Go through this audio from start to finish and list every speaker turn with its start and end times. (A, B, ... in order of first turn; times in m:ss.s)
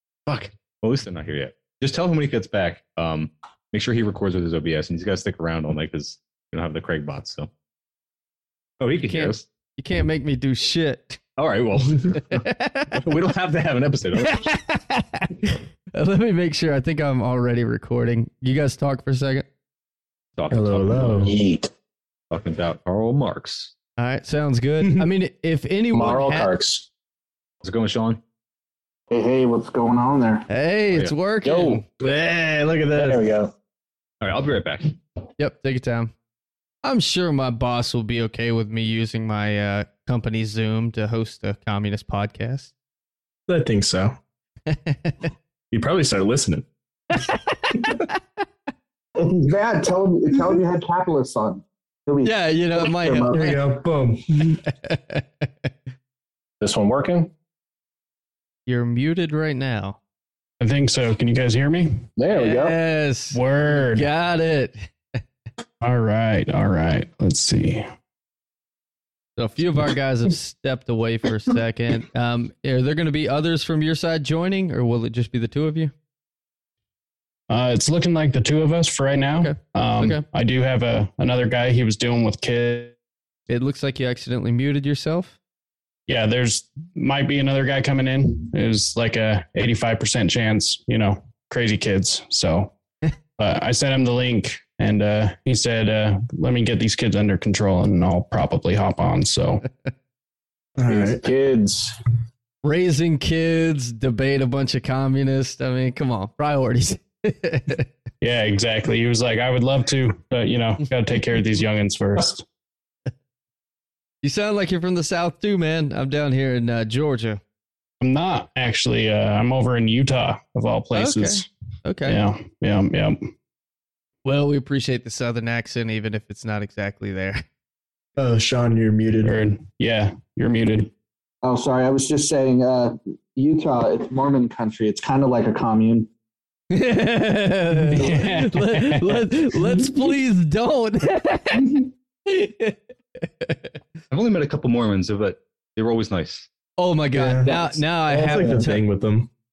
0:00.3-0:07.5 A
0:08.8-0:09.4 A
0:09.1-0:11.2 B
0:11.4-0:14.5 A
0:12.3-0:12.9 B
0:14.2-0:19.5 B
0:20.4-0:21.4 A
0:20.5-0:21.4 C
0:21.3-0:21.7 D
0:22.3-0:23.7 A
0:24.0-0:26.5 B
0:25.9-0:26.9 D
0:27.6-0:28.2 A
0:29.1-0:30.5 E
0:30.5-0:31.8 B
0:31.4-0:31.8 D
0:32.0-0:33.3 C
0:33.0-0:33.5 D
0:34.2-0:34.9 A
0:35.4-0:36.1 B
0:36.8-0:42.7 B
0:43.5-0:44.2 C
0:44.7-0:45.2 B
0:45.7-0:46.7 C
0:47.1-0:48.2 B
0:49.2-0:53.5 E
0:52.2-0:53.6 B
0:53.3-0:54.6 C
0:54.6-0:55.5 B
0:56.6-0:57.3 D
0:58.7-1:00.0 B
1:00.6-1:02.1 F
1:02.2-1:02.8 D
1:02.3-1:05.2 B
1:03.3-1:04.1 F
1:05.8-1:07.9 F
1:09.4-1:15.9 B
1:17.5-1:23.0 F
1:19.4-1:20.2 B
1:23.5-1:25.4 B
1:26.1-1:32.7 F
1:33.4-1:39.6 F
1:40.8-1:41.3 C
1:40.9-1:42.0 D
1:42.6-1:47.9 B
1:48.2-1:52.4 F
1:54.2-1:57.4 B
1:58.0-2:01.5 F
2:00.9-2:02.2 B
2:02.0-2:03.3 F
2:04.2-2:07.4 B
2:08.2-2:09.3 C
2:09.2-2:10.9 F
2:11.4-2:16.1 E
2:16.7-2:23.7 B
2:17.9-2:19.3 F
2:24.1-2:26.5 A
2:26.8-2:28.8 B
2:27.1-2:29.3 C